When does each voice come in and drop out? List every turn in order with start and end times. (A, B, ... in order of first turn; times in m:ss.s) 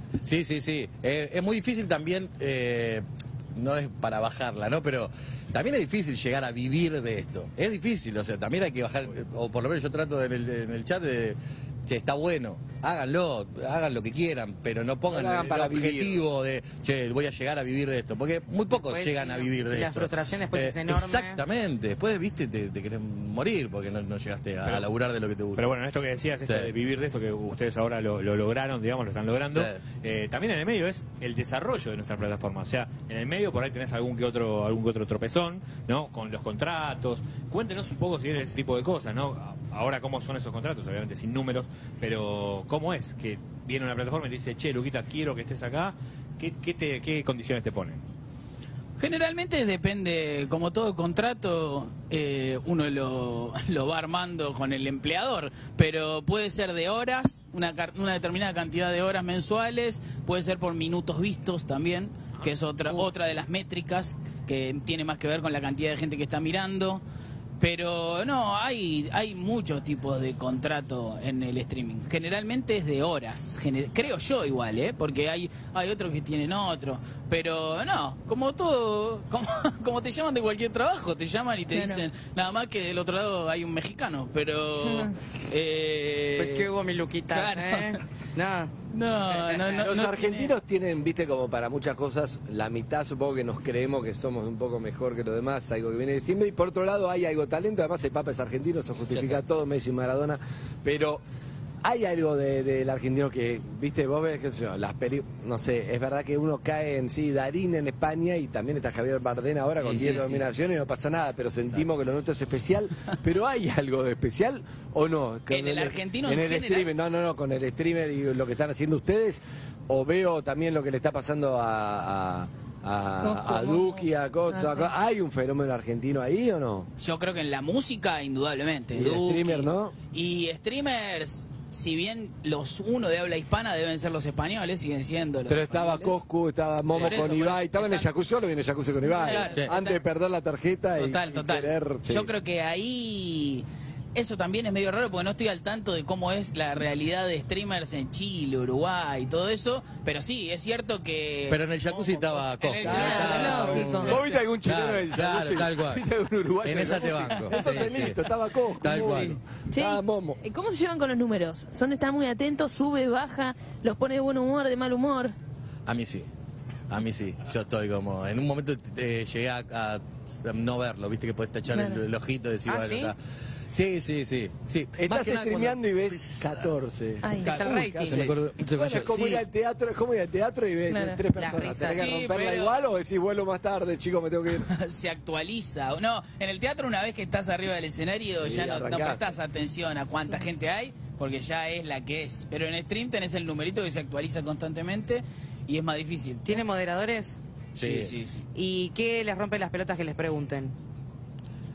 0:00.2-0:25.7 A
0:15.1-0:16.2 B
0:18.7-0:21.4 C
0:24.6-0:24.9 D
0:25.6-0:48.0 D
0:26.4-0:26.7 A
0:29.5-0:29.8 A
0:49.0-1:07.0 E
1:02.4-1:03.0 D
1:07.6-1:26.7 E
1:21.7-1:22.0 F
1:24.8-1:25.1 F
1:26.4-1:28.7 C
1:27.3-1:28.0 E
1:28.9-1:30.5 E
1:29.3-1:29.7 C
1:29.8-1:41.2 B
1:41.8-2:06.9 B
1:49.8-1:50.4 E
1:55.5-1:56.9 E
2:03.2-2:04.9 F
2:07.0-2:16.2 E
2:08.9-2:09.9 B
2:15.5-2:22.3 B
2:16.9-2:18.1 E
2:19.1-2:20.0 E
2:21.0-2:34.1 E
2:31.5-2:36.0 A
2:32.8-2:40.4 B
2:32.8-2:34.2 F
2:36.6-2:38.2 A
2:37.5-2:37.9 E
2:38.8-2:39.4 A
2:39.7-2:45.3 F
2:45.8-2:46.3 A
2:46.9-2:53.2 A
2:51.7-2:52.0 F
2:52.7-2:53.1 C
2:53.7-2:56.7 A
2:55.0-3:04.7 B
2:57.2-2:57.7 F
2:57.4-2:58.3 C
2:58.0-2:59.4 A
3:00.9-3:01.2 F
3:01.3-3:02.1 C
3:01.9-3:02.8 E
3:04.6-3:16.6 E
3:08.4-3:09.2 B
3:16.4-3:17.4 C
3:17.7-3:18.1 A
3:17.8-3:18.4 E
3:18.5-3:20.7 C